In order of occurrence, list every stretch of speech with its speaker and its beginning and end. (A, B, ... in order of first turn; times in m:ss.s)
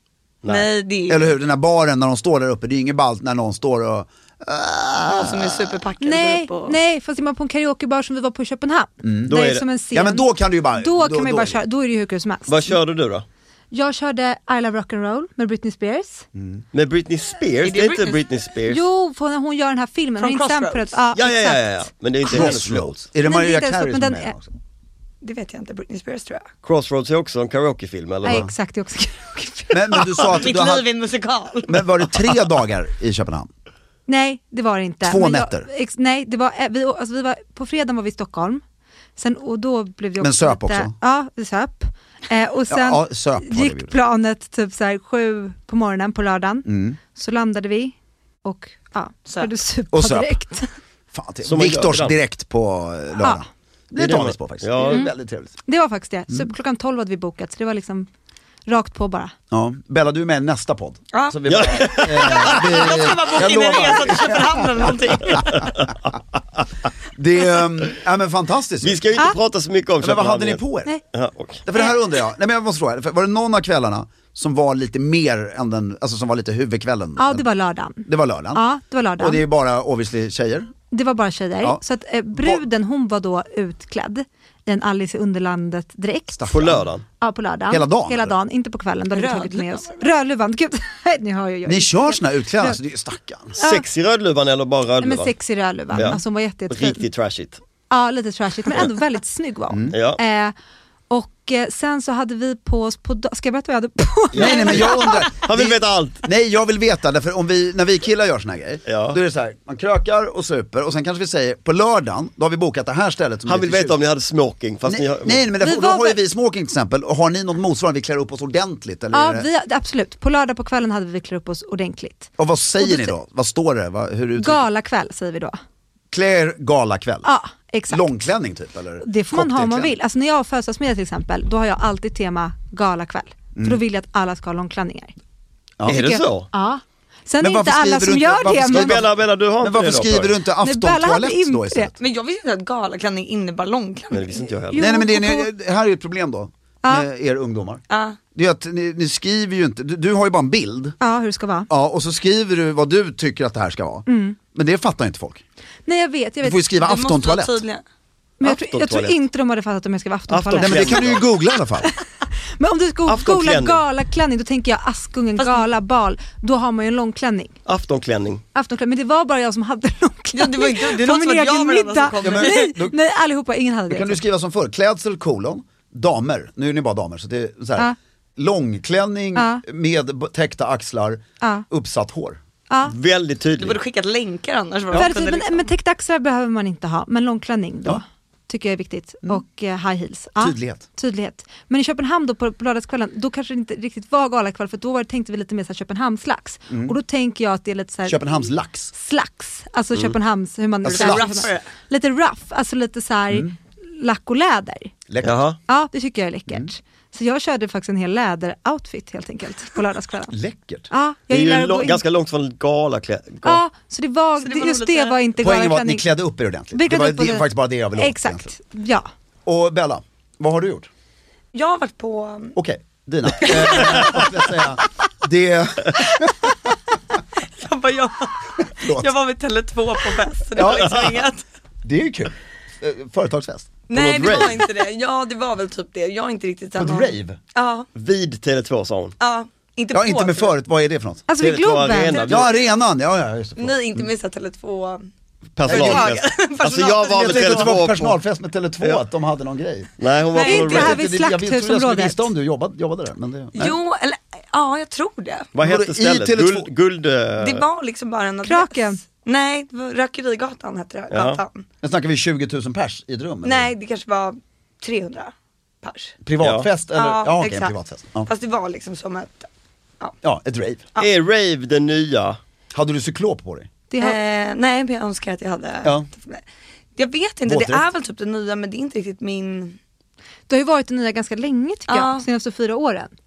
0:00.4-0:00.7 A
0:00.5-0:01.3 B
0:01.1-0:05.8 C
0:05.1-0:06.8 B
0:06.0-0:10.2 D
0:09.0-0:09.4 C
0:09.3-0:09.6 A
0:09.9-0:11.6 C
0:10.8-0:12.6 D
0:12.5-0:13.2 A
0:13.7-0:16.3 D
0:16.3-0:16.6 C
0:16.7-0:18.8 A
0:17.6-0:18.2 B
0:18.7-0:22.5 D
0:20.2-0:21.0 B
0:21.1-0:23.0 A
0:22.2-0:24.5 C
0:23.2-0:24.3 D
0:25.2-0:26.5 B
0:26.6-0:28.4 A
0:28.2-0:30.1 D
0:28.2-0:28.5 C
0:29.7-0:30.8 C
0:30.3-0:31.9 B
0:31.7-0:33.5 C
0:34.1-0:38.6 D
0:35.0-0:35.7 C
0:39.2-0:47.9 D
0:40.2-0:40.9 C
0:42.7-0:44.0 C
0:46.6-0:47.0 C
0:48.4-0:50.7 D
0:49.9-0:50.4 C
0:51.1-0:55.6 C
0:51.4-0:52.2 A
0:53.2-0:53.4 D
0:54.0-0:55.0 A
0:54.8-0:55.1 D
0:55.7-0:58.1 D
0:58.7-0:59.3 D
0:59.5-1:05.7 C
1:01.1-1:05.7 B
1:01.5-1:03.4 A
1:05.2-1:06.0 A
1:07.1-1:09.2 C
1:08.8-1:10.6 A
1:10.0-1:10.9 C
1:11.1-1:11.6 A
1:11.6-1:17.5 C
1:17.2-1:19.4 D
1:18.0-1:18.7 C
1:19.2-1:20.7 C
1:20.9-1:26.6 D
1:22.3-1:22.6 C
1:26.3-1:26.9 C
1:26.5-1:27.0 A
1:27.2-1:32.8 D
1:27.7-1:28.3 C
1:29.1-1:30.1 B
1:31.6-1:33.6 C
1:33.6-1:33.9 D
1:33.6-1:35.3 A
1:35.0-1:37.0 D
1:35.9-1:37.6 A
1:35.9-1:36.2 C
1:37.9-1:40.5 D
1:39.7-1:40.0 C
1:39.9-1:40.2 A
1:41.1-1:45.3 D
1:44.3-1:46.2 A
1:44.3-1:54.0 C
1:48.9-1:49.2 A
1:53.5-1:55.5 A
1:54.8-1:59.5 C
1:55.6-1:56.2 D
1:59.1-2:03.1 D
2:02.4-2:04.6 C
2:04.4-2:05.6 D
2:06.1-2:07.3 C
2:07.2-2:08.1 D
2:07.9-2:09.9 C
2:09.0-2:15.1 D
2:13.6-2:13.8 C
2:15.8-2:16.5 A
2:15.9-2:19.0 D
2:17.4-2:22.0 C
2:18.7-2:20.4 A
2:20.6-2:21.9 D
2:22.0-2:24.5 B
2:24.1-2:24.9 A
2:24.7-2:25.5 D
2:24.8-2:27.8 C
2:27.9-2:28.2 B
2:28.3-2:31.0 C
2:31.0-2:31.7 D
2:31.7-2:35.4 C
2:34.1-2:34.4 D
2:35.9-2:36.7 D
2:36.4-2:37.6 C
2:36.8-2:37.8 B
2:38.4-2:41.1 D
2:38.4-2:39.2 A
2:40.3-2:41.3 A
2:40.6-2:41.9 C
2:42.6-2:47.5 D
2:43.1-2:43.8 A
2:45.4-2:45.6 B
2:47.6-2:48.4 A
2:48.5-2:54.2 D
2:50.3-2:52.7 B
2:52.2-2:53.0 C
2:53.9-3:02.4 C
2:59.3-2:59.6 D
3:02.9-3:03.8 A
3:03.6-3:05.7 B
3:04.9-3:24.9 D
3:10.4-3:10.8 C
3:16.7-3:17.0 C
3:18.0-3:18.9 C
3:20.8-3:21.5 C
3:20.9-3:21.7 B
3:25.1-3:25.4 C
3:25.2-3:25.6 A
3:25.7-3:30.4 D
3:30.3-3:30.9 C
3:30.9-3:32.0 D
3:31.3-3:33.6 A
3:33.4-3:36.1 D
3:34.4-3:35.2 B
3:35.4-3:38.5 C
3:36.7-3:39.1 D
3:39.4-3:40.9 C
3:41.5-3:42.6 B
3:42.5-3:46.5 C
3:43.4-3:44.6 B
3:47.4-3:51.4 B
3:48.8-3:49.1 C
3:50.5-3:51.2 C
3:50.7-3:51.0 A
3:51.8-3:53.7 C
3:53.9-3:57.9 B
3:53.9-3:54.7 A
3:56.8-3:57.4 C
3:58.0-3:59.2 A
3:59.2-4:00.5 B
3:59.9-4:01.3 C
4:01.3-4:02.3 D
4:01.4-4:02.5 A
4:02.1-4:02.7 B
4:02.3-4:04.1 C
4:03.6-4:05.1 B
4:05.6-4:08.2 A
4:05.6-4:06.2 C
4:05.7-4:07.7 B
4:07.1-4:09.9 C
4:10.0-4:11.0 A
4:10.3-4:10.9 B
4:10.4-4:12.3 D
4:10.5-4:13.8 C
4:13.5-4:15.5 B
4:15.5-4:17.6 A
4:15.6-4:16.7 C
4:17.4-4:21.6 B
4:18.4-4:19.0 D
4:21.1-4:21.4 A
4:21.8-4:23.7 C
4:23.4-4:26.1 B
4:26.2-4:28.3 C
4:26.4-4:26.7 A
4:26.9-4:27.7 B
4:28.2-4:29.5 B
4:30.2-4:30.9 C
4:31.0-4:32.4 A
4:32.7-4:33.7 C
4:33.9-4:34.2 D
4:34.0-4:36.4 B
4:37.0-4:39.8 B
4:37.4-4:37.8 C
4:40.5-4:43.1 D
4:41.9-4:42.2 B